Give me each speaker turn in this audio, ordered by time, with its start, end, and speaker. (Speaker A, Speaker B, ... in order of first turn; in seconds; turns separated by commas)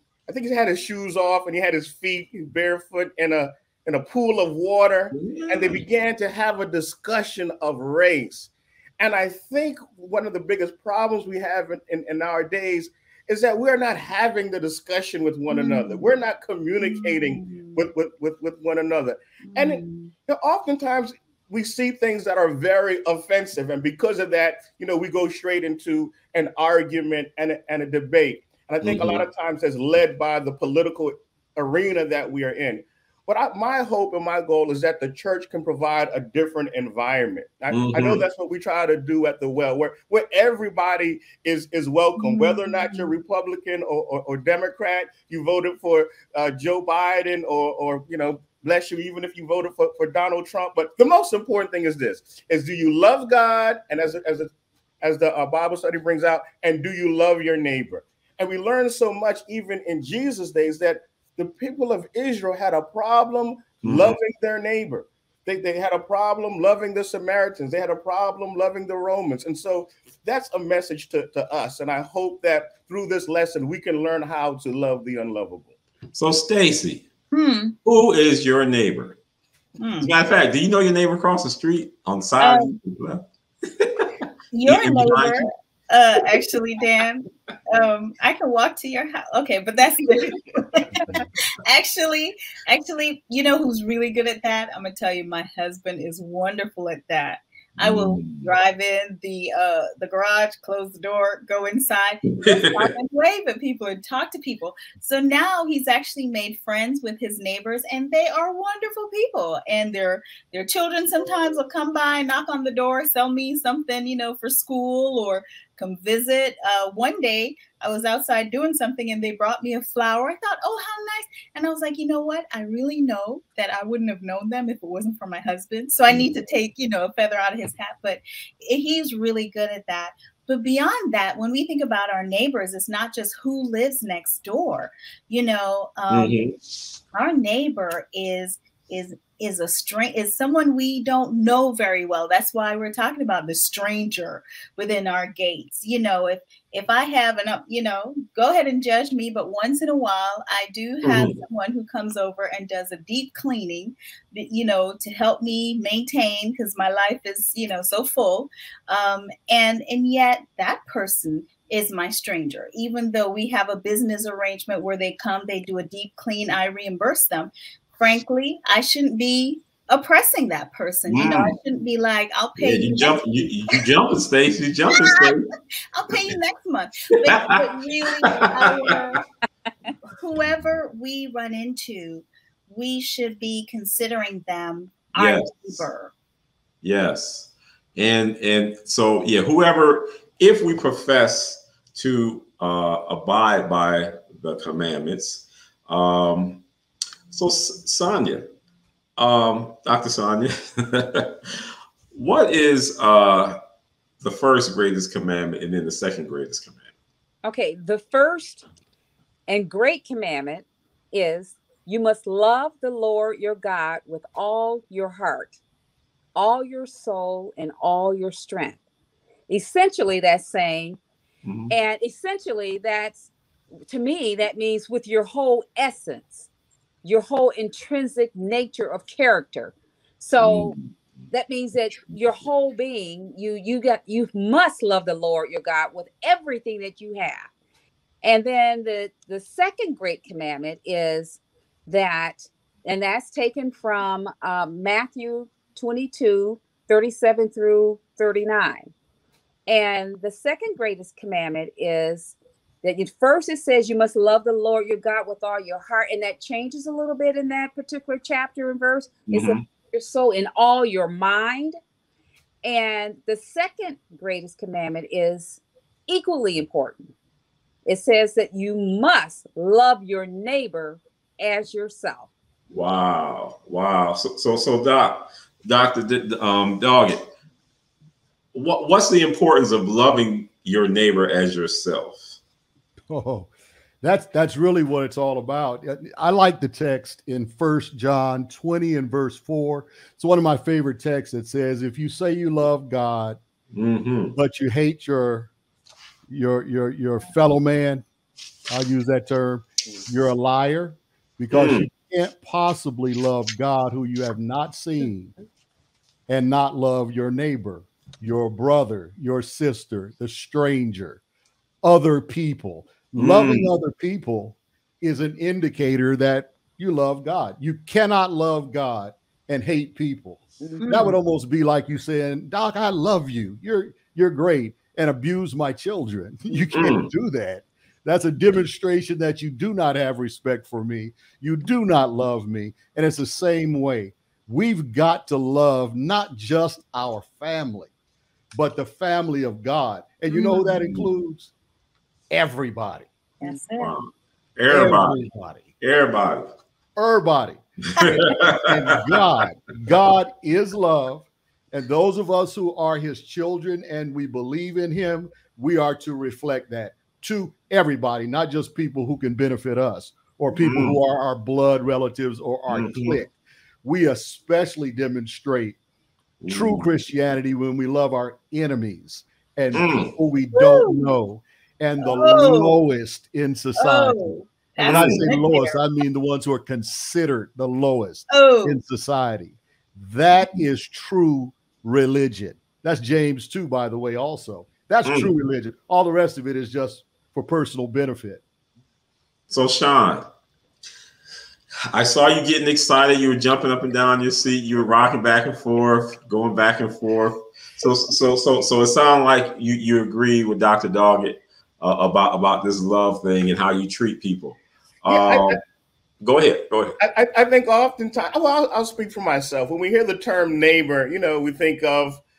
Speaker A: 0.3-75.7, Speaker B: 5.1-5.8, Speaker C: 15.5-16.1, Speaker C: 16.8-17.9, Speaker C: 19.4-20.1, Speaker B: 28.8-29.2, Speaker B: 37.7-38.2, Speaker C: 42.2-43.1, Speaker B: 63.8-64.2, Speaker B: 76.1-77.1, Speaker C: 77.3-77.7, Speaker B: 77.8-79.2, Speaker C: 79.8-80.1, Speaker B: 80.0-83.2, Speaker C: 82.4-82.8, Speaker B: 83.8-85.5, Speaker C: 84.5-136.5, Speaker B: 97.8-98.5, Speaker B: 102.3-102.9, Speaker B: 136.1-136.6, Speaker C: 137.1-173.9, Speaker B: 151.0-151.4, Speaker B: 171.1-171.6, Speaker B: 172.6-175.5, Speaker C: 174.9-175.3, Speaker C: 175.9-179.2, Speaker B: 177.3-177.6, Speaker B: 178.2-178.9, Speaker C: 180.1-186.1, Speaker B: 185.2-185.9, Speaker B: 186.8-196.6, Speaker B: 197.3-198.5, Speaker B: 199.2-201.6, Speaker B: 202.1-203.6, Speaker B: 204.2-206.8, Speaker D: 207.4-208.7, Speaker D: 209.5-215.6, Speaker D: 216.3-218.8, Speaker D: 219.5-221.0, Speaker B: 221.4-221.7, Speaker D: 221.7-223.3, Speaker D: 223.9-226.5, Speaker D: 227.0-230.8, Speaker B: 230.4-230.9, Speaker D: 231.3-237.5, Speaker D: 238.2-248.9, Speaker D: 249.7-261.8, Speaker B: 259.3-259.6, Speaker D: 262.6-267.1, Speaker D: 267.9-272.3, Speaker B: 272.7-277.3, Speaker B: 278.5-282.4, Speaker E: 283.1-283.5, Speaker E: 284.0-293.4, Speaker B: 293.7-294.4, Speaker E: 294.4-295.5, Speaker E: 296.3-298.0, Speaker E: 298.7-305.3, Speaker B: 301.5-301.9, Speaker E: 306.3-311.2, Speaker E: 311.8-337.9, Speaker B: 313.2-313.7, Speaker C: 320.8-321.2, Speaker B: 326.7-327.1, Speaker E: 338.5-341.5, Speaker C: 340.3-340.8, Speaker E: 342.3-343.6, Speaker C: 343.4-343.9, Speaker B: 343.8-345.2, Speaker E: 344.7-345.7, Speaker B: 345.8-346.5, Speaker E: 347.0-363.3, Speaker B: 348.0-348.9, Speaker B: 360.5-361.0, Speaker B: 362.7-363.2, Speaker E: 363.8-365.8, Speaker B: 366.4-366.9, Speaker E: 366.5-388.4, Speaker B: 369.7-370.1, Speaker C: 370.6-371.1, Speaker C: 372.0-372.8, Speaker C: 373.8-375.8, Speaker B: 374.8-375.3, Speaker C: 378.3-378.8, Speaker B: 385.1-385.3, Speaker B: 389.5-390.3, Speaker B: 391.9-405.6, Speaker A: 405.1-405.6, Speaker B: 406.2-407.0, Speaker A: 407.0-412.2